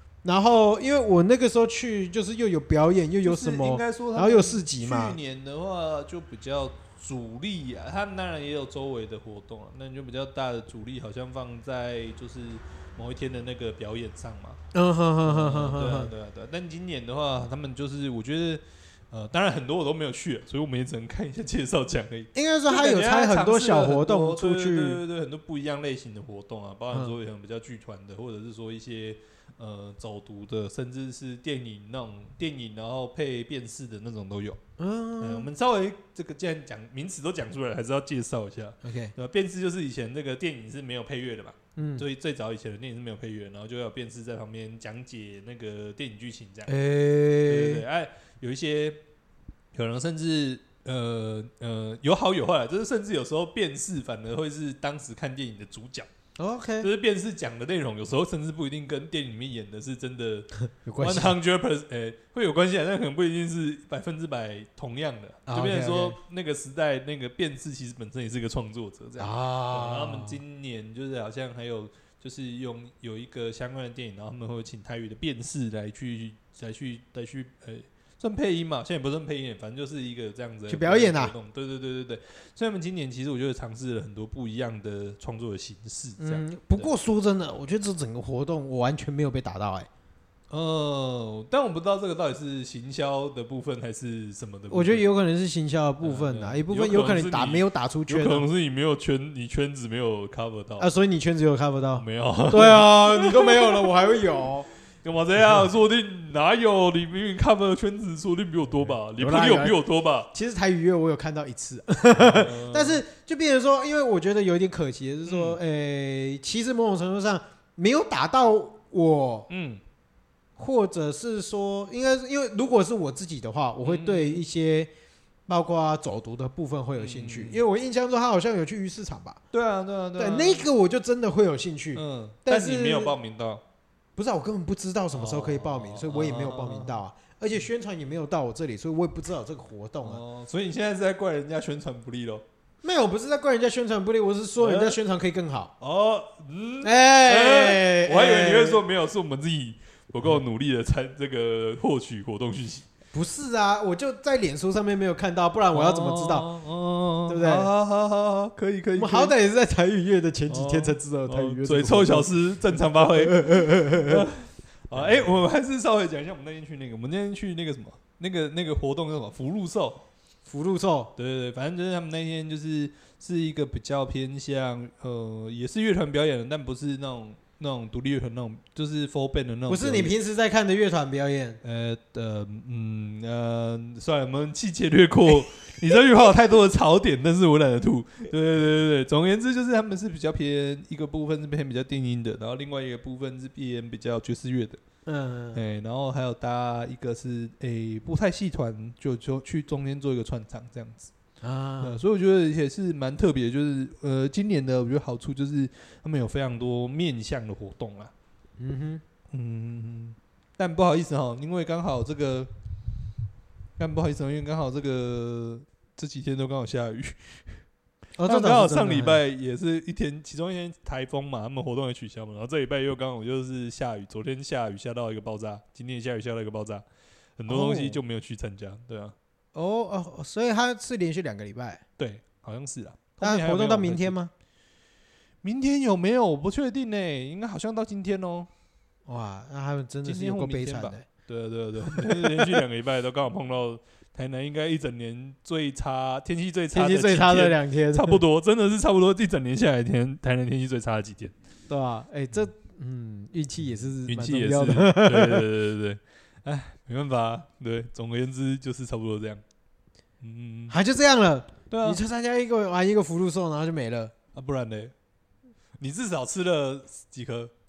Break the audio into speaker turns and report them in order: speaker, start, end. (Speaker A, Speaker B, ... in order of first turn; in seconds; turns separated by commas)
Speaker A: 0.2-5.2, Speaker B: 3.2-14.6, Speaker A: 14.7-16.1, Speaker B: 15.2-34.6, Speaker A: 22.4-25.0, Speaker A: 34.8-35.5, Speaker B: 35.2-46.7, Speaker A: 38.8-39.1, Speaker A: 41.8-42.1, Speaker A: 46.7-47.9, Speaker B: 47.4-49.0, Speaker B: 49.7-56.1, Speaker A: 56.4-56.9, Speaker B: 56.8-86.9, Speaker A: 60.9-61.4, Speaker A: 65.5-66.2, Speaker A: 69.2-70.4, Speaker A: 80.7-81.3, Speaker A: 86.2-89.9, Speaker B: 90.5-95.0, Speaker A: 94.7-98.5, Speaker B: 96.0-100.9, Speaker A: 100.8-104.7, Speaker B: 102.0-103.9, Speaker B: 105.0-110.3, Speaker A: 109.2-109.8, Speaker A: 110.3-119.5, Speaker B: 112.2-113.0, Speaker B: 115.3-115.6, Speaker B: 119.5-119.8, Speaker A: 120.6-124.9, Speaker B: 123.8-124.4, Speaker A: 125.5-129.4, Speaker B: 127.0-127.6, Speaker B: 129.5-130.7, Speaker A: 130.2-133.2, Speaker B: 131.9-133.6, Speaker A: 134.2-140.2, Speaker B: 135.1-137.0, Speaker B: 140.0-142.4, Speaker A: 142.8-145.7, Speaker B: 144.6-145.0, Speaker B: 145.8-152.9, Speaker A: 146.8-148.8, Speaker A: 153.1-156.5, Speaker B: 155.7-159.3, Speaker A: 157.3-157.7, Speaker A: 159.0-164.3, Speaker B: 160.5-170.0, Speaker A: 170.5-171.1, Speaker B: 171.2-180.2, Speaker A: 179.7-181.6, Speaker B: 181.6-194.8, Speaker A: 195.1-195.6, Speaker B: 195.5-201.1, Speaker A: 201.4-202.0, Speaker B: 201.8-208.1, Speaker A: 208.6-209.0, Speaker B: 209.3-212.5, Speaker B: 213.8-217.6, Speaker A: 218.2-219.2, Speaker B: 218.2-226.8, Speaker B: 227.4-229.1, Speaker A: 227.5-228.0, Speaker A: 229.5-231.8, Speaker B: 232.0-234.2, Speaker A: 233.2-234.3, Speaker B: 235.4-238.5, Speaker A: 239.1-241.1, Speaker B: 240.0-251.3, Speaker A: 241.8-242.6, Speaker A: 246.7-248.2, Speaker A: 251.7-255.5, Speaker B: 254.0-259.4, Speaker B: 260.2-260.8, Speaker A: 260.7-264.1, Speaker B: 261.7-262.0, Speaker B: 264.3-264.9, Speaker B: 265.8-267.5